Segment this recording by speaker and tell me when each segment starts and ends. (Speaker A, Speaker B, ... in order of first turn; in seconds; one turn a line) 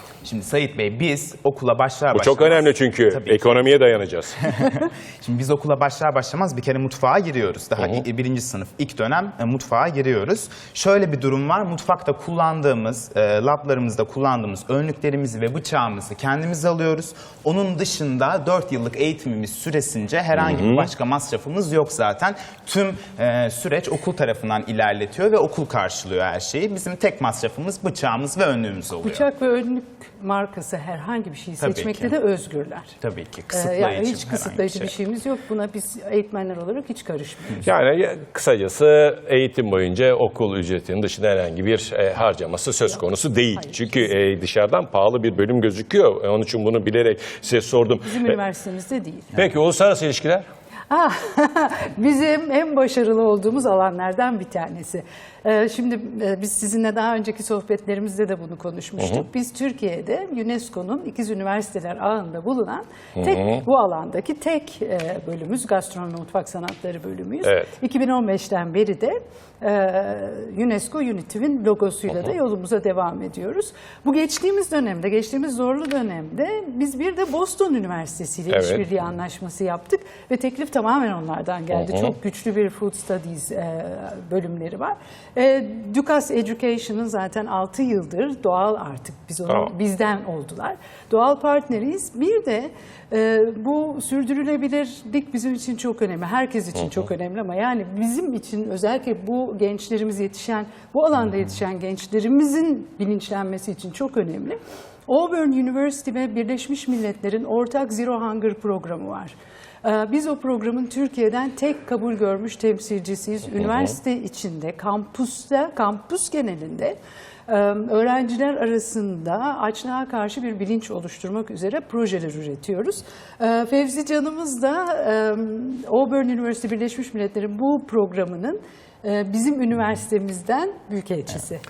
Speaker A: 0.2-3.7
Speaker B: 2.1-4.4
Speaker A: 4.4-29.2
Speaker B: 7.8-8.0
Speaker B: 20.3-20.9
Speaker C: 29.0-33.0
Speaker A: 31.6-32.1
Speaker A: 33.0-34.9
Speaker C: 33.5-37.6
Speaker B: 37.6-48.4
Speaker C: 43.6-44.1
Speaker C: 48.0-49.3
Speaker B: 49.3-50.4
Speaker C: 50.9-104.5
Speaker B: 59.0-59.2
Speaker B: 63.2-63.6
Speaker B: 67.4-67.7
Speaker B: 78.5-78.8
Speaker B: 81.7-82.1
Speaker B: 89.5-89.7
Speaker C: 105.1-131.6
Speaker B: 113.5-113.9